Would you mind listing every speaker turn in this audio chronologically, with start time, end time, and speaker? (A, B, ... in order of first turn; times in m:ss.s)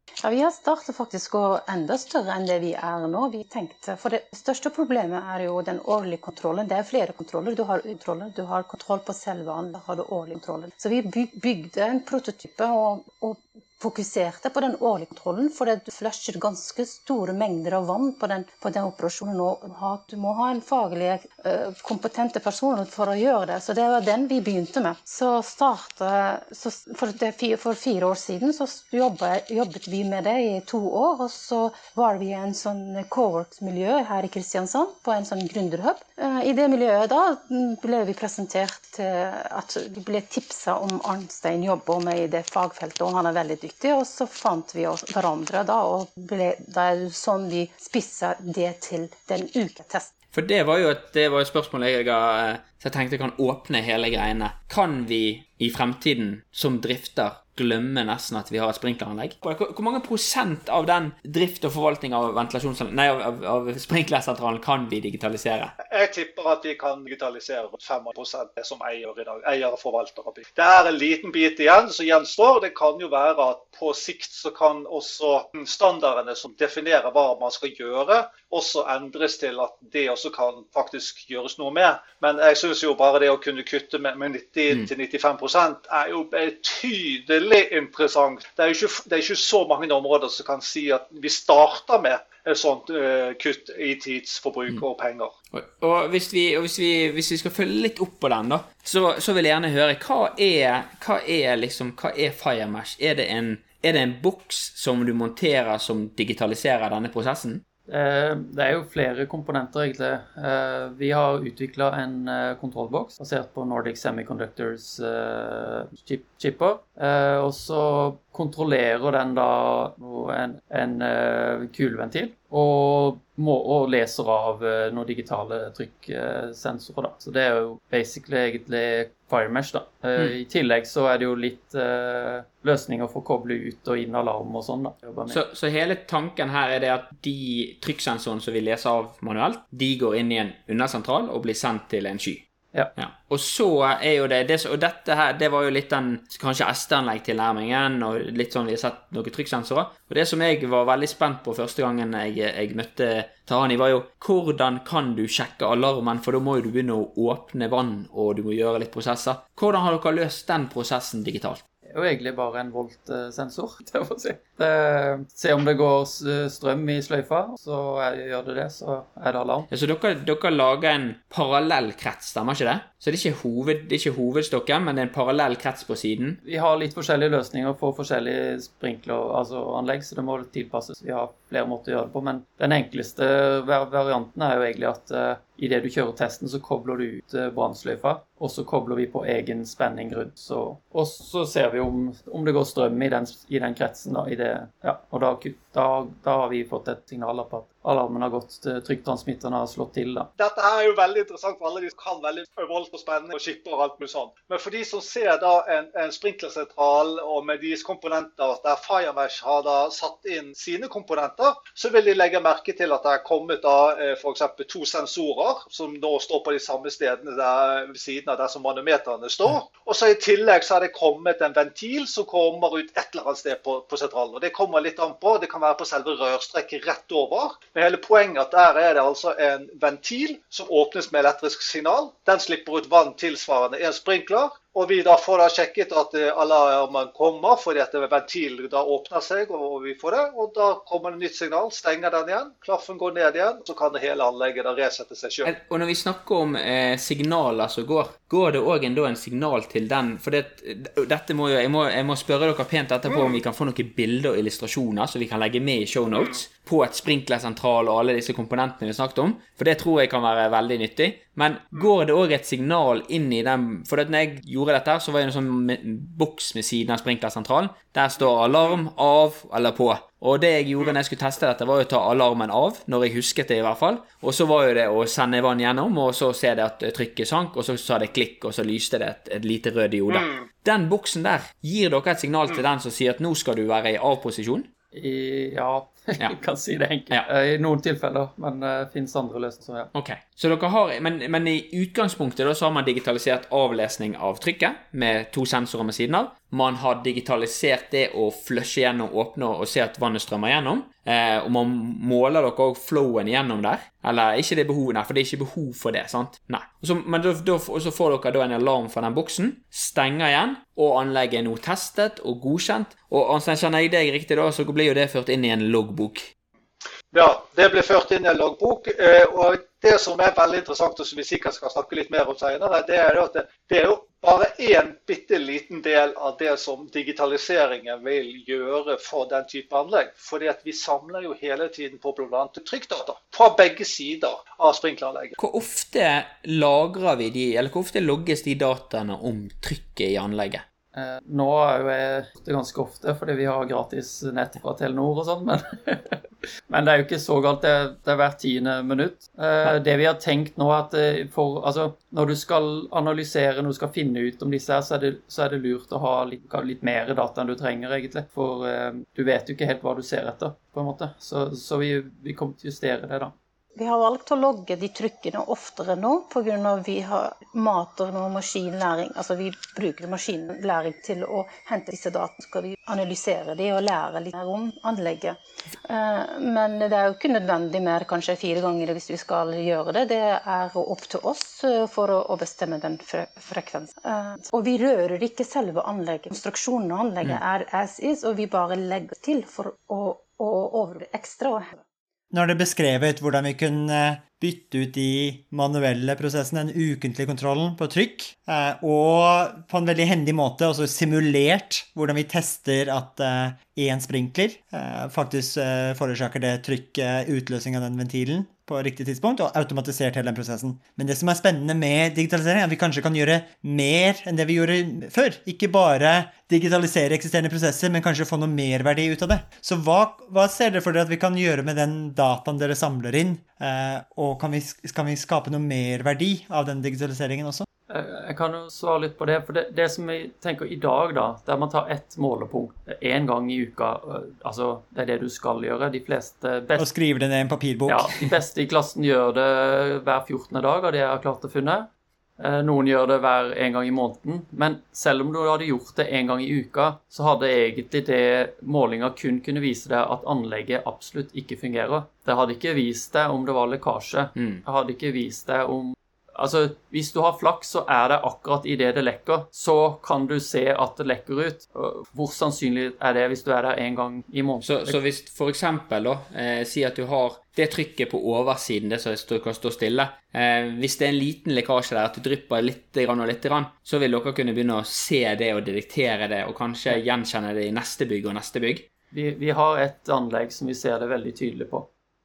0:00.2-0:50.1 A
0:50.3-1:05.7 B
1:05.9-1:35.3 C
1:35.5-1:47.6 B
1:47.9-2:15.4 D
2:15.3-2:41.6 B
2:41.9-2:49.7 D
2:49.7-2:56.4 B
2:56.4-3:20.3 D
3:20.4-4:05.5 C
4:05.4-4:44.7 B
4:13.1-4:13.4 C
4:44.9-4:49.9 D
4:49.9-5:16.3 B
5:17.1-5:35.3 C
5:35.4-5:40.6 B
5:40.9-6:03.3 D
6:03.8-6:31.8 A
6:32.3-7:07.6 E
7:07.9-7:16.9 D
7:16.8-7:18.1 E
7:17.9-7:21.9 D
7:22.4-7:45.0 D
7:34.4-7:34.6 B
7:44.6-7:58.8 B
7:59.1-8:01.9 D